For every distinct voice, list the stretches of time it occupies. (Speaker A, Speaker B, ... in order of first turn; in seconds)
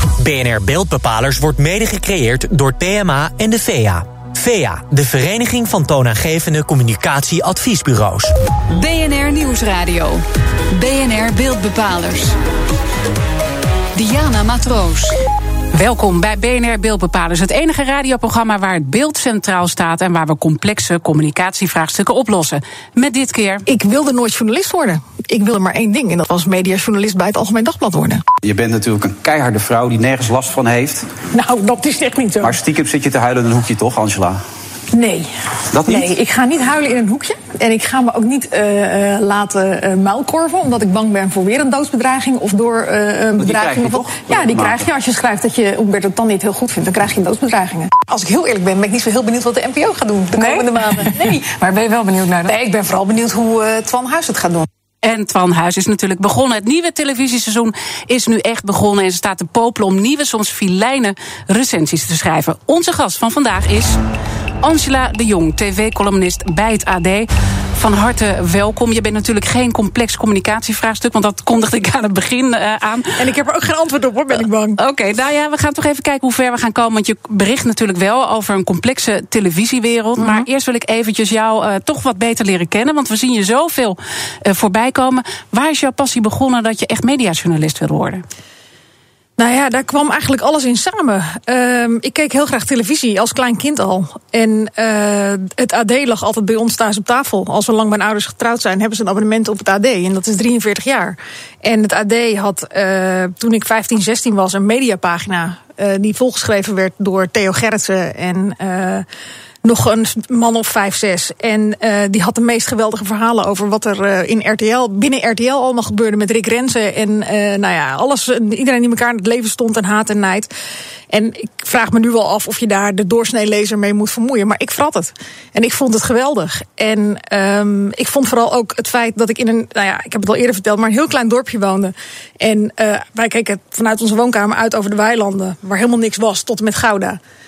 Speaker A: 0.2-8.3
Speaker B: 8.7-12.4, 13.9-15.2, 50.4-50.7
Speaker C: 15.7-23.6, 55.0-64.0, 64.6-73.2, 74.8-88.2
Speaker D: 23.7-28.2, 31.3-32.6, 34.9-35.3, 35.8-54.7, 73.2-74.8, 80.2-80.5, 89.4-109.0, 109.6-120.5, 121.1-137.2
Speaker E: 28.4-31.1, 32.4-34.4, 35.7-36.1, 43.4-44.9